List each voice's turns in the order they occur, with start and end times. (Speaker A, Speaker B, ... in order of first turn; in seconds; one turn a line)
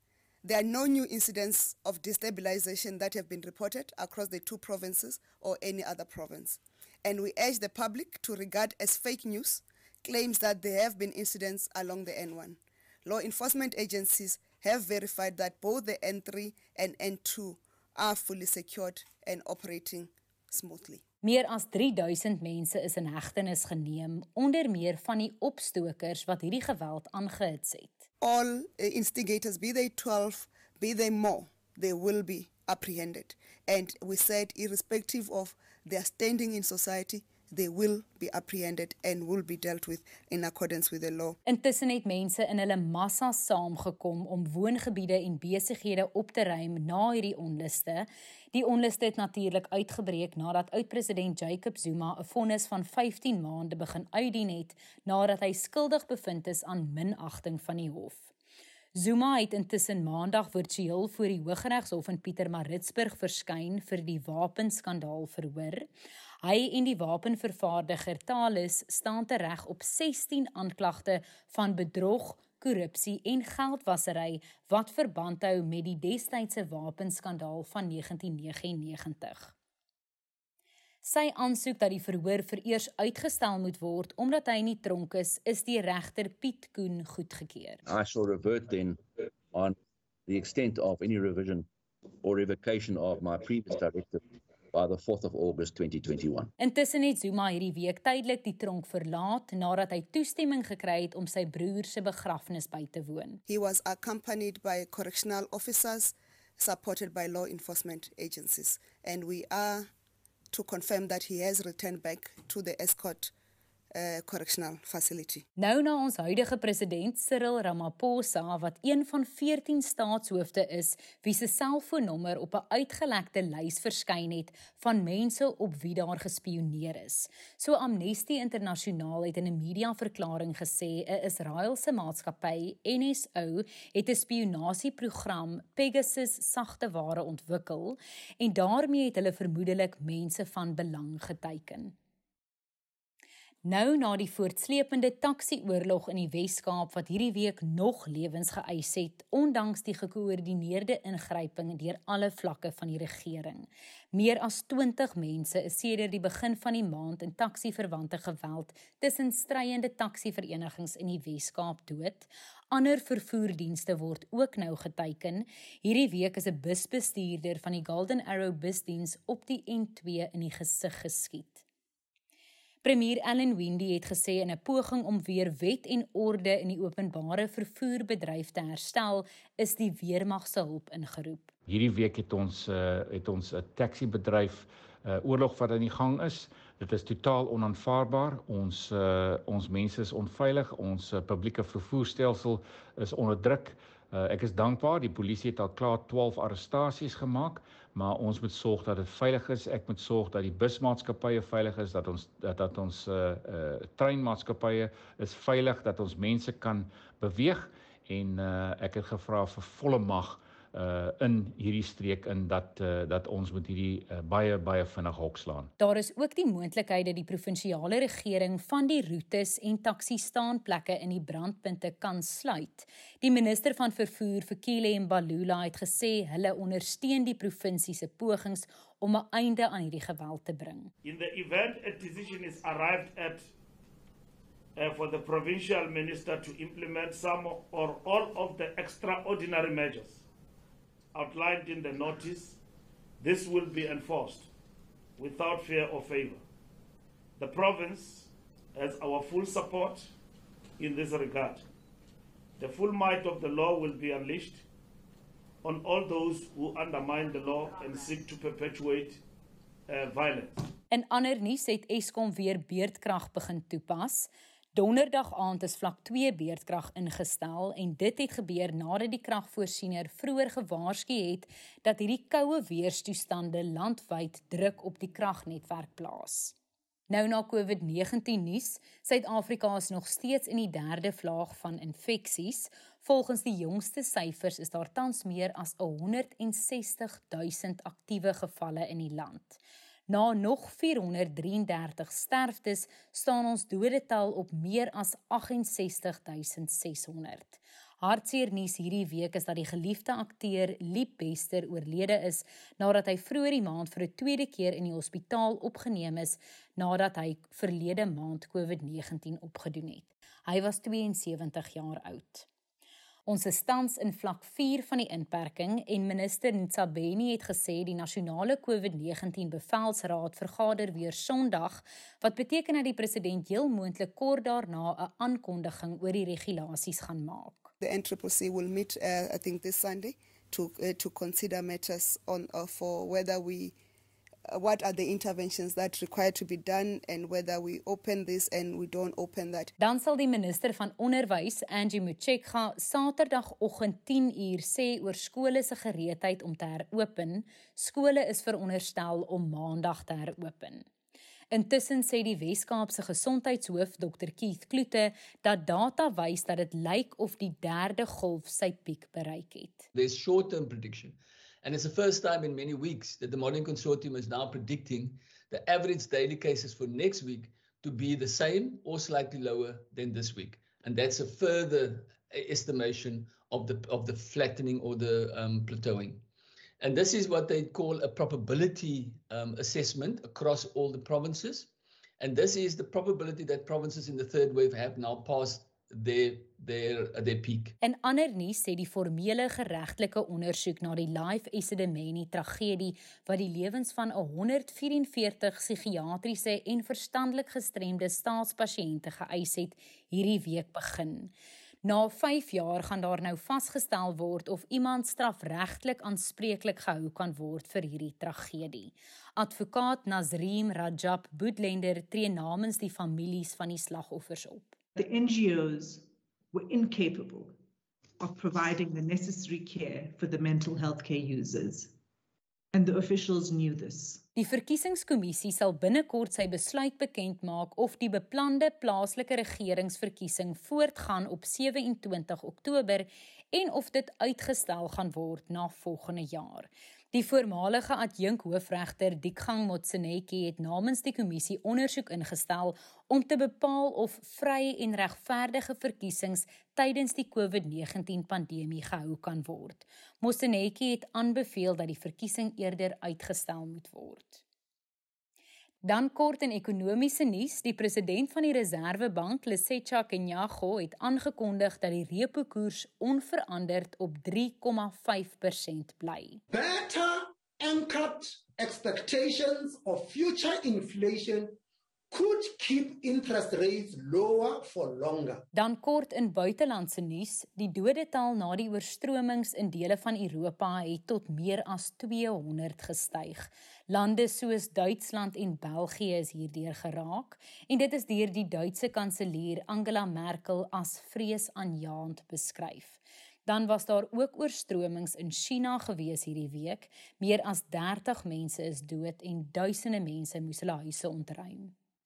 Speaker A: 0.4-21.0
Speaker B: 21.2-28.1
Speaker A: 28.2-41.4
Speaker B: 41.5-58.3
Speaker B: 59.0-65.9
Speaker B: 66.4-79.5
Speaker B: 81.0-87.8
Speaker C: 87.9-89.0
Speaker C: 90.3-91.7
Speaker C: 92.2-94.2
Speaker C: 94.7-96.5
Speaker B: 96.6-103.4
Speaker A: 103.5-109.9
Speaker A: 110.5-113.3
Speaker A: 113.9-115.5
Speaker B: 115.6-141.9
Speaker B: 143.7-171.6
Speaker B: 172.8-181.5
Speaker D: 181.7-215.7
Speaker B: 215.8-230.9
Speaker E: 231.0-233.5
Speaker E: 234.8-240.2
Speaker E: 241.1-242.6
Speaker E: 243.2-244.5
Speaker E: 245.2-246.4
Speaker E: 247.4-250.1
Speaker E: 250.8-251.7
Speaker E: 252.6-254.7
Speaker E: 255.6-259.2
Speaker E: 259.9-260.7
Speaker B: 260.9-276.6
Speaker B: 277.1-312.5
Speaker B: 313.3-327.7
Speaker A: 327.8-333.8
Speaker A: 334.5-339.7
Speaker B: 339.8-350.8
Speaker B: 351.5-359.9
Speaker F: 359.9-376.2
Speaker F: 376.8-387.8
Speaker B: 387.8-401.3
Speaker B: 401.8-414.7
Speaker G: 414.9-417.6
Speaker G: 418.2-421.9
Speaker G: 422.7-424.2
Speaker B: 424.4-454.4
Speaker B: 455.8-466.4
Speaker H: 466.5-471.6
Speaker H: 472.1-475.4
Speaker B: 475.5-501.7